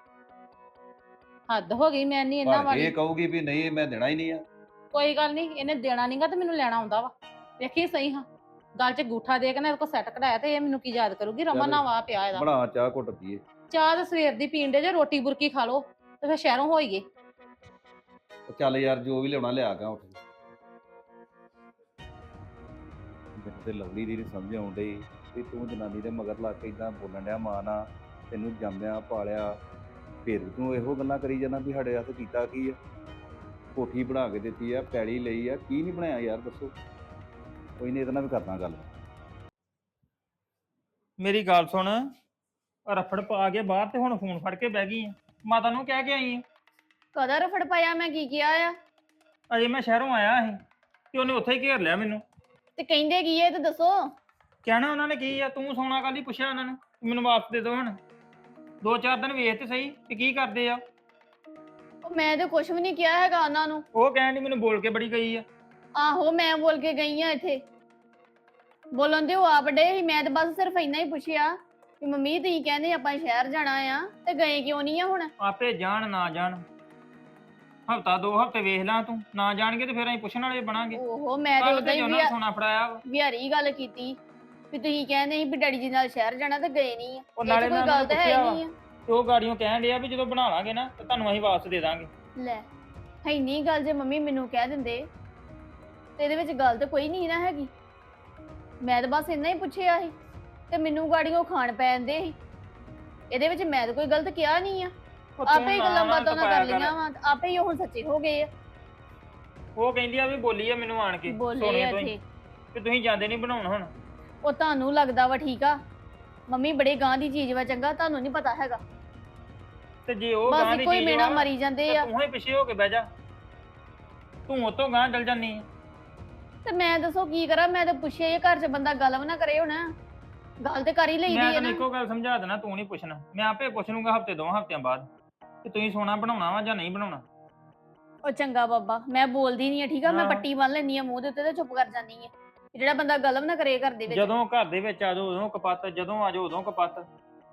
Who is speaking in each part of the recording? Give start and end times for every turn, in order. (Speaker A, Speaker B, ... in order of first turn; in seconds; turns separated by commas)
Speaker A: 1.5-2.9, Speaker B: 2.5-4.4, Speaker A: 4.9-8.2, Speaker A: 8.8-12.4, Speaker B: 11.5-13.4, Speaker A: 13.7-17.0, Speaker B: 18.5-20.2, Speaker B: 23.4-29.6, Speaker B: 30.2-32.8, Speaker B: 33.7-36.7, Speaker B: 37.8-38.9, Speaker C: 41.2-42.0, Speaker C: 42.9-46.4, Speaker D: 47.1-48.7, Speaker C: 49.5-50.6, Speaker C: 51.1-52.2, Speaker D: 52.8-54.0, Speaker C: 54.6-58.0, Speaker C: 58.8-60.8, Speaker D: 62.0-63.8, Speaker C: 63.9-65.4, Speaker D: 66.0-67.6, Speaker D: 69.0-71.5, Speaker D: 72.0-75.3, Speaker C: 75.4-76.6, Speaker C: 77.9-81.0, Speaker D: 81.0-82.3, Speaker C: 81.6-83.0, Speaker D: 83.0-84.2, Speaker D: 84.7-88.7, Speaker C: 87.4-92.1, Speaker D: 92.4-92.6, Speaker D: 93.2-95.0, Speaker D: 96.2-97.7, Speaker D: 98.8-100.1, Speaker D: 100.7-102.3, Speaker D: 103.3-104.9, Speaker C: 105.4-106.9, Speaker D: 105.5-108.5, Speaker C: 109.8-112.1, Speaker D: 111.3-112.2, Speaker C: 112.7-113.9, Speaker D: 114.4-115.8, Speaker D: 116.5-118.8, Speaker C: 120.1-123.1, Speaker D: 120.5-122.1, Speaker C: 124.5-125.7, Speaker D: 126.6-129.9, Speaker D: 130.6-131.8, Speaker C: 131.3-135.1, Speaker C: 135.6-137.2, Speaker D: 138.2-144.3, Speaker C: 140.1-140.4, Speaker C: 144.1-147.1